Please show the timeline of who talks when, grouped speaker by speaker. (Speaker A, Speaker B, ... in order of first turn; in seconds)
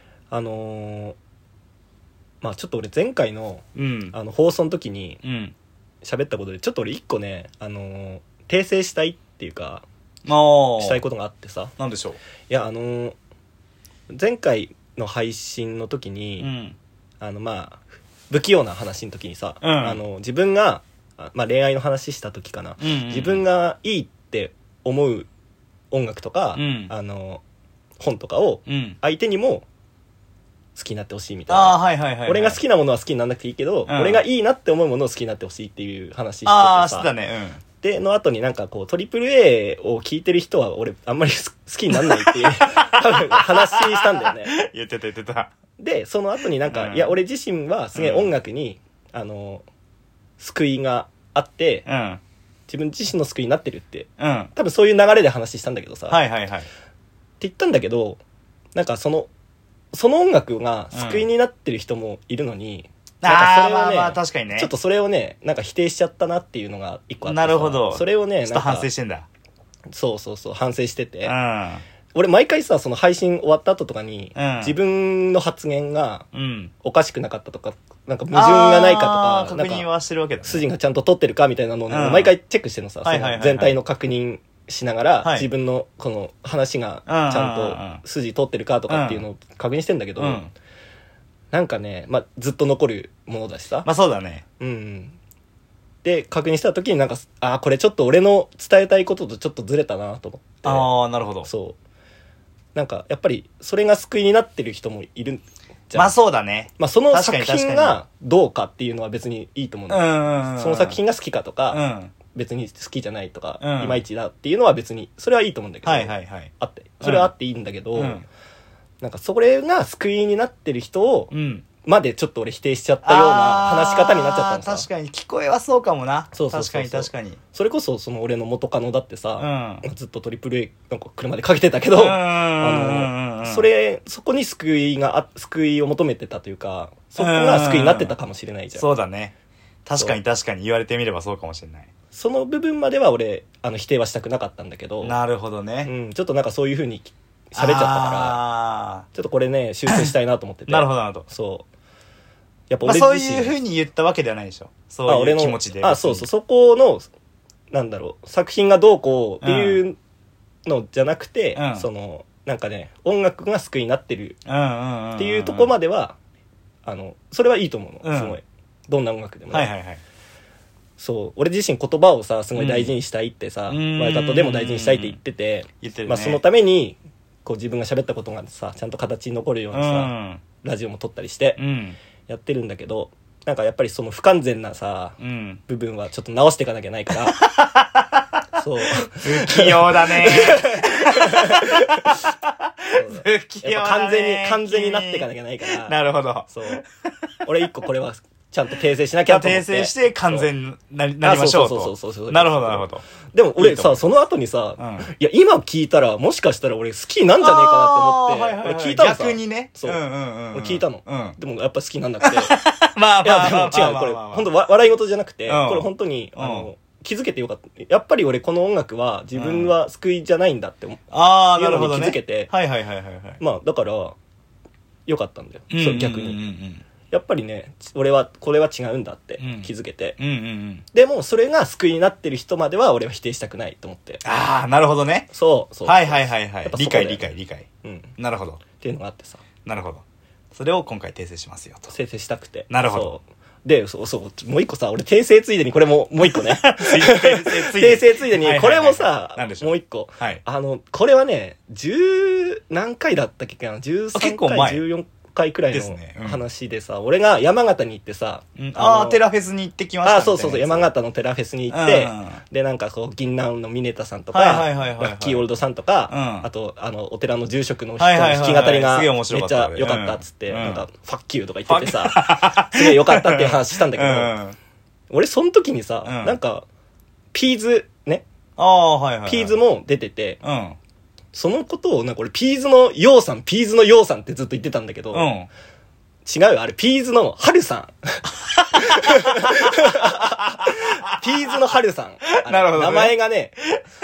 Speaker A: 0.3-1.1, 2.4-5.2, 6.0-9.8, 10.8-11.7, 12.5-13.2, 14.1-16.5, 17.2-25.3, 25.9-27.4, 28.0-29.6, 30.8-37.1, 37.8-44.5, 45.8-49.6, 50.4-51.9, 52.7-56.2, 57.4-58.2, 58.7-59.3, 59.9-68.9, 69.9-71.3, 72.1-76.3, 76.8-79.9, 80.4-90.4, 91.5-93.9, 94.6-95.2, 96.0-100.9, 101.4-101.8, 102.7-106.2, 106.8-118.2, 119.0-121.3, 121.8-124.9, 126.3-138.8, 142.1-145.2, 145.8-148.4, 149.1-151.6, 152.7-153.6, 155.1-157.1, 157.7-160.0, 160.7-164.4, 165.2-166.2, 166.8-169.7, 171.0-181.6, 182.3-187.5, 188.6-192.2, 192.9-195.9, 196.5-196.8, 197.4-200.5, 201.2-212.6, 213.2-222.5, 223.4-224.2, 225.1-226.4, 227.1-230.2, 230.9-234.2, 235.3-237.2, 237.8-238.1, 238.8-239.4, 241.9-259.2, 260.0-274.3, 275.1-276.6, 277.3-278.2, 279.2-280.4, 281.3-285.3, 286.2-293.6
Speaker B: 3.7-4.1, 5.2-5.5, 10.2-11.0, 11.8-12.2, 16.4-16.8, 19.6-20.0, 22.8-23.4, 26.5-26.9, 28.7-29.0, 31.5-32.6, 33.9-34.2, 36.5-37.6, 42.0-45.5, 46.7-47.1, 47.9-48.3, 51.9-52.2, 54.2-54.5, 56.1-56.7, 60.9-61.2, 63.2-64.7, 67.2-69.3, 71.2-71.8, 74.3-74.8, 76.3-76.7, 78.3-80.6, 81.9-82.3, 83.0-83.8, 85.2-85.5, 87.1-88.0, 88.9-89.2, 90.2-90.5, 93.8-94.4, 100.6-101.5, 105.9-108.0, 109.9-111.0, 111.7-112.1, 113.6-114.0, 115.8-116.5, 117.0-117.3, 117.9-118.2, 121.3-121.7, 123.0-127.4, 129.4-129.8, 131.9-133.7, 137.2-138.1, 138.8-139.3, 139.8-141.9, 145.0-145.9, 147.5-149.1, 150.7-151.3, 152.8-156.3, 159.4-159.8, 161.5-161.8, 164.4-165.7, 168.0-168.3, 169.5-170.0, 172.6-172.9, 173.7-175.2, 175.8-176.4, 179.7-180.4, 181.6-182.0, 185.2-185.6, 187.3-188.4, 188.9-196.8, 199.3-203.0, 203.6-204.1, 204.8-205.1, 207.4-211.3, 212.2-214.5, 215.5-216.7, 219.3-219.7, 221.1-223.4, 225.7-226.8, 229.4-230.8, 234.2-235.3, 235.8-238.6, 239.7-240.0, 240.5-241.9, 242.7-243.2, 246.3-250.4, 254.1-254.8, 255.7-256.4, 258.6-260.9, 261.7-262.4, 264.3-265.4, 266.1-266.5, 268.0-270.9, 271.7-274.6, 276.0-276.4, 278.6-279.6, 280.4-280.8, 285.1-285.5, 288.4-290.8, 292.4-293.2